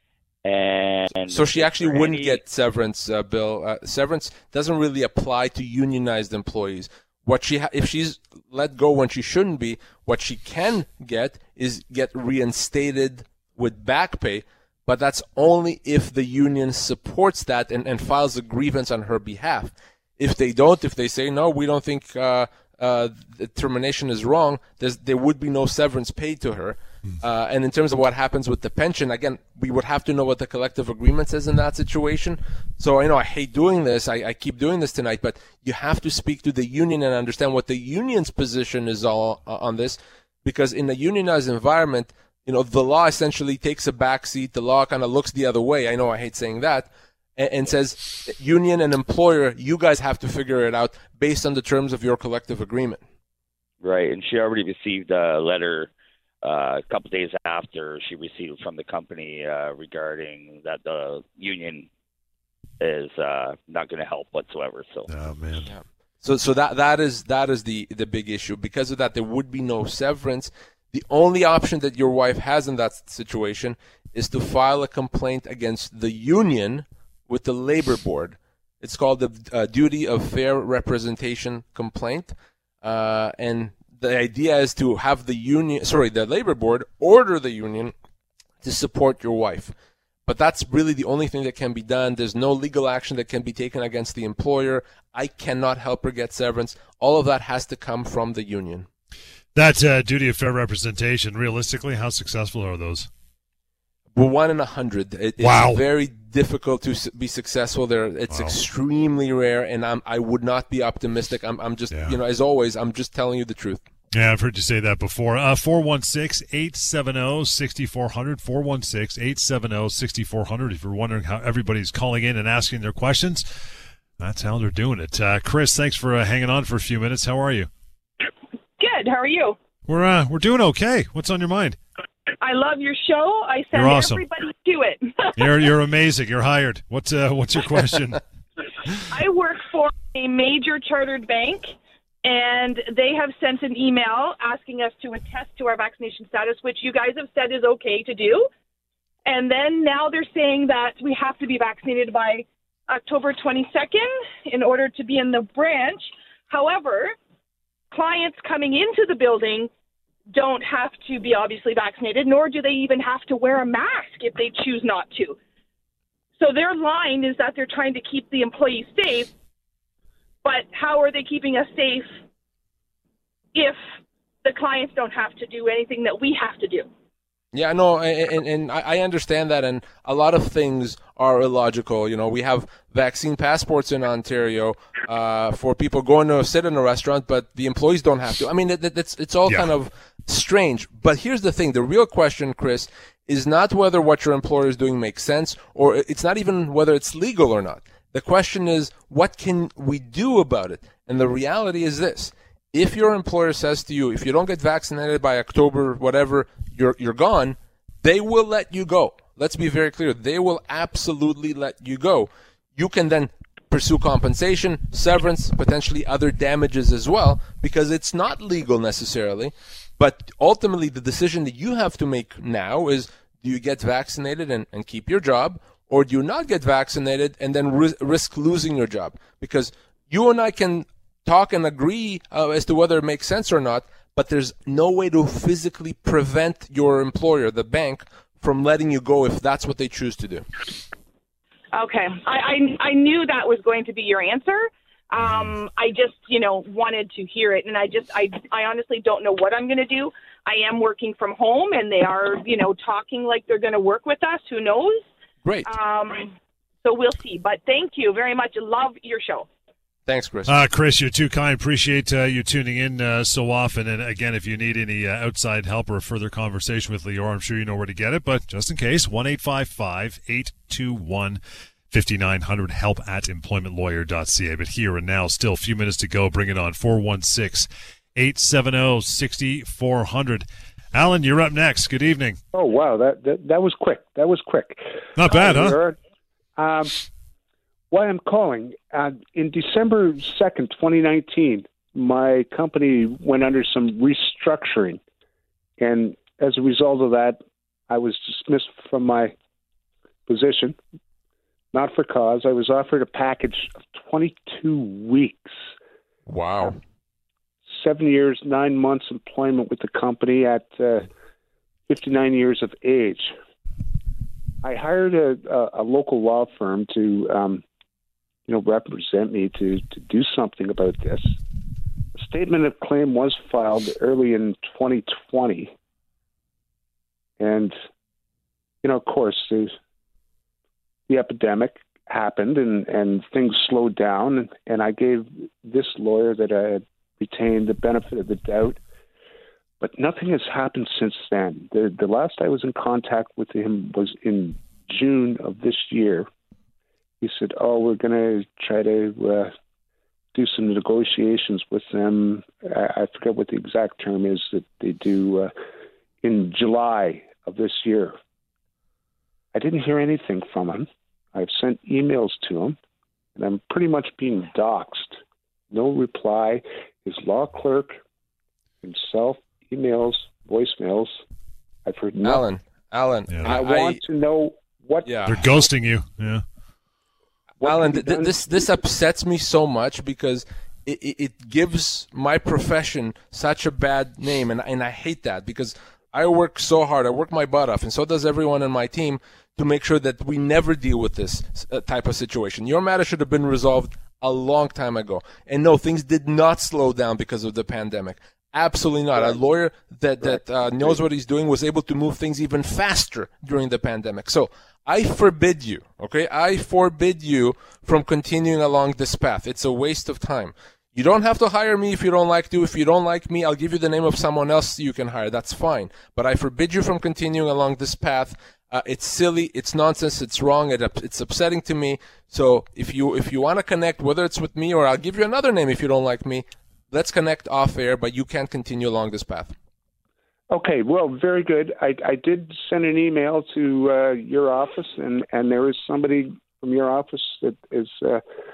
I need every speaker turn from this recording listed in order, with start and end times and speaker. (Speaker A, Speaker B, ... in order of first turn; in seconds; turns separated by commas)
Speaker A: 0.5-2.4, Speaker B: 1.3-53.0, Speaker A: 53.8-55.9, Speaker A: 56.4-61.9, Speaker A: 62.8-65.1, Speaker C: 65.1-65.7, Speaker B: 65.7-88.0, Speaker B: 88.6-89.7, Speaker B: 90.3-98.9, Speaker C: 99.5-103.1, Speaker B: 104.2-113.8, Speaker C: 105.4-105.8, Speaker C: 108.3-108.6, Speaker C: 111.9-112.2, Speaker C: 114.1-127.7, Speaker D: 128.8-129.6, Speaker C: 129.9-131.8, Speaker D: 132.4-135.5, Speaker C: 133.7-134.3, Speaker C: 135.4-138.2, Speaker D: 139.1-141.7, Speaker D: 142.2-148.5, Speaker D: 149.3-157.2, Speaker D: 157.9-159.7, Speaker D: 160.3-165.4, Speaker D: 166.4-169.3, Speaker D: 170.4-172.2, Speaker D: 173.5-173.8, Speaker D: 174.4-176.9, Speaker B: 177.5-240.4, Speaker D: 241.7-255.1, Speaker C: 245.2-245.5, Speaker B: 255.4-255.7, Speaker D: 255.7-259.5, Speaker B: 260.1-260.5, Speaker C: 260.5-271.4, Speaker C: 271.9-282.4, Speaker E: 282.5-286.0, Speaker C: 285.2-285.8, Speaker E: 286.6-287.0, Speaker E: 287.9-295.0, Speaker E: 295.8-299.3, Speaker E: 300.3-300.8, Speaker E: 301.7-305.6, Speaker B: 306.3-306.8, Speaker E: 307.7-311.1, Speaker E: 311.9-313.4, Speaker E: 314.6-317.6, Speaker E: 318.5-321.4, Speaker E: 322.1-325.7, Speaker E: 327.4-327.8, Speaker E: 328.8-329.7, Speaker E: 331.1-338.8, Speaker E: 339.8-346.3, Speaker E: 347.2-349.5, Speaker E: 350.3-355.5, Speaker E: 356.2-358.2, Speaker E: 359.5-362.8, Speaker E: 363.4-368.0, Speaker E: 368.8-371.2, Speaker E: 371.9-372.5, Speaker B: 372.2-374.0, Speaker C: 373.3-373.6, Speaker E: 373.4-375.2, Speaker B: 375.1-375.5, Speaker C: 375.3-376.4, Speaker E: 377.6-378.7, Speaker B: 377.6-429.5, Speaker E: 430.5-438.2